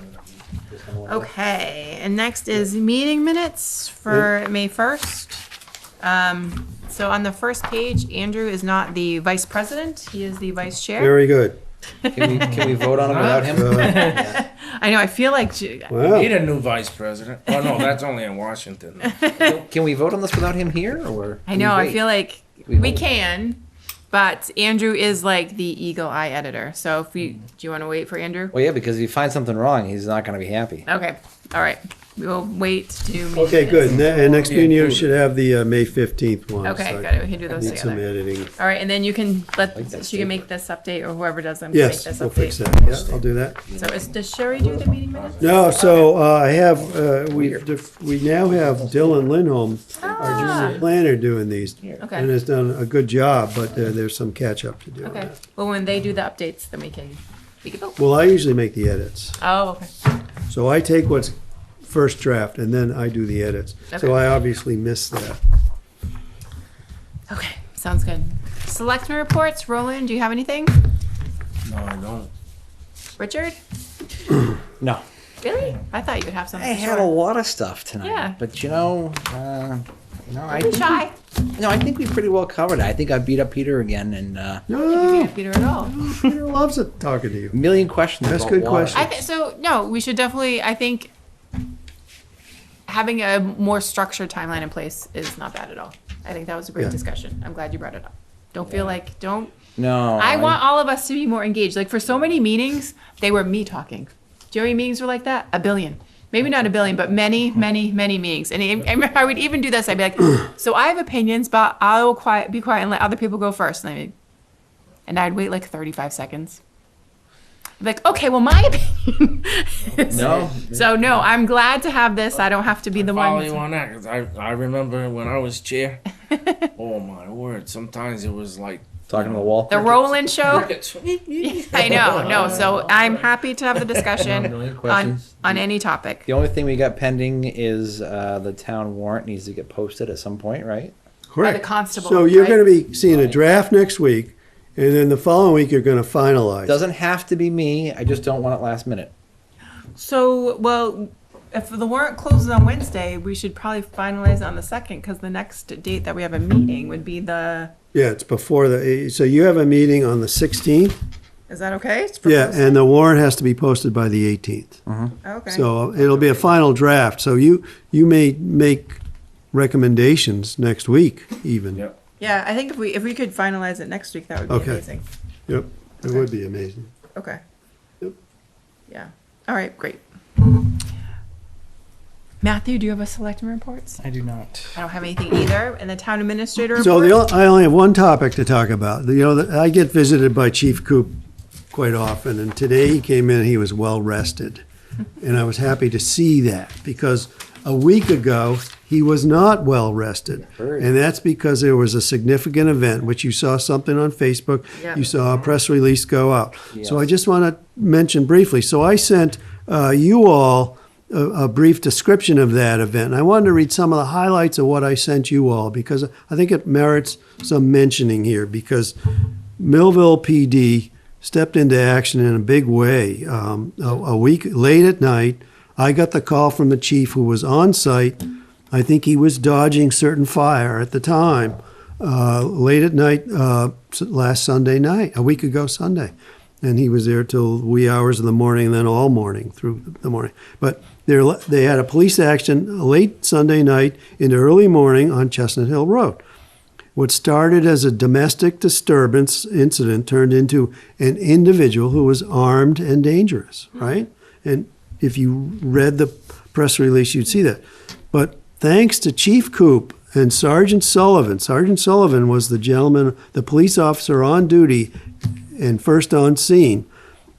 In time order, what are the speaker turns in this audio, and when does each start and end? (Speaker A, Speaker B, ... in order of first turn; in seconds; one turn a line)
Speaker A: 0.7-1.3
Speaker B: 1.0-5.5
Speaker B: 6.0-11.2
Speaker C: 11.0-11.6
Speaker B: 12.0-12.7
Speaker A: 12.1-14.4
Speaker D: 12.3-14.2
Speaker C: 13.4-14.2
Speaker B: 13.6-15.9
Speaker C: 15.9-16.4
Speaker D: 16.0-19.2
Speaker B: 19.0-19.6
Speaker A: 19.4-22.0
Speaker B: 21.4-23.6
Speaker A: 22.7-23.0
Speaker B: 24.1-28.5
Speaker A: 28.5-30.9
Speaker B: 30.9-34.0
Speaker C: 33.3-38.5
Speaker D: 33.8-35.1
Speaker B: 36.6-43.2
Speaker A: 39.7-40.4
Speaker C: 41.7-43.6
Speaker D: 43.7-46.0
Speaker B: 43.7-46.0
Speaker C: 45.4-55.4
Speaker A: 47.3-47.7
Speaker A: 48.5-49.2
Speaker B: 50.0-50.8
Speaker A: 50.1-50.8
Speaker B: 52.0-52.3
Speaker B: 55.0-58.0
Speaker C: 58.0-59.4
Speaker B: 59.4-59.9
Speaker C: 60.5-61.3
Speaker C: 61.8-65.4
Speaker B: 63.9-64.2
Speaker B: 67.3-70.8
Speaker D: 71.6-72.3
Speaker B: 73.2-73.6
Speaker B: 75.4-77.1
Speaker A: 76.5-81.0
Speaker B: 78.0-78.4
Speaker B: 80.5-81.1
Speaker A: 81.5-84.6
Speaker C: 84.7-87.6
Speaker B: 84.7-86.0
Speaker A: 87.5-89.1
Speaker C: 88.2-89.1
Speaker B: 89.0-91.1
Speaker B: 92.9-99.6
Speaker A: 98.7-98.9
Speaker A: 99.8-100.6
Speaker B: 100.1-114.1
Speaker B: 115.1-116.6
Speaker B: 117.8-123.6
Speaker D: 119.9-120.5
Speaker A: 120.1-121.2
Speaker D: 123.0-126.0
Speaker D: 126.7-129.6
Speaker A: 129.1-130.7
Speaker B: 129.7-130.7
Speaker D: 130.5-133.2
Speaker B: 131.4-136.3
Speaker A: 131.9-132.7
Speaker A: 134.2-135.6
Speaker A: 136.2-140.9
Speaker C: 141.3-146.8
Speaker B: 141.4-142.7
Speaker A: 143.0-143.4
Speaker A: 146.7-149.1
Speaker B: 149.9-157.7
Speaker C: 157.9-160.9
Speaker B: 161.5-162.8
Speaker C: 162.2-164.8
Speaker A: 164.9-165.1
Speaker B: 165.2-165.7
Speaker C: 165.5-169.0
Speaker D: 166.0-166.4
Speaker C: 169.5-171.8
Speaker B: 172.2-175.0
Speaker C: 174.5-174.8
Speaker C: 175.5-176.9
Speaker B: 177.1-177.4
Speaker B: 178.9-180.5
Speaker B: 182.4-184.0
Speaker A: 184.0-184.7
Speaker B: 184.7-187.2
Speaker C: 186.8-191.2
Speaker C: 191.7-194.6
Speaker C: 195.2-218.9
Speaker A: 200.4-200.9
Speaker B: 204.8-205.0
Speaker A: 206.7-207.1
Speaker C: 219.6-228.2
Speaker C: 228.7-246.2
Speaker C: 246.9-264.9
Speaker C: 265.6-266.9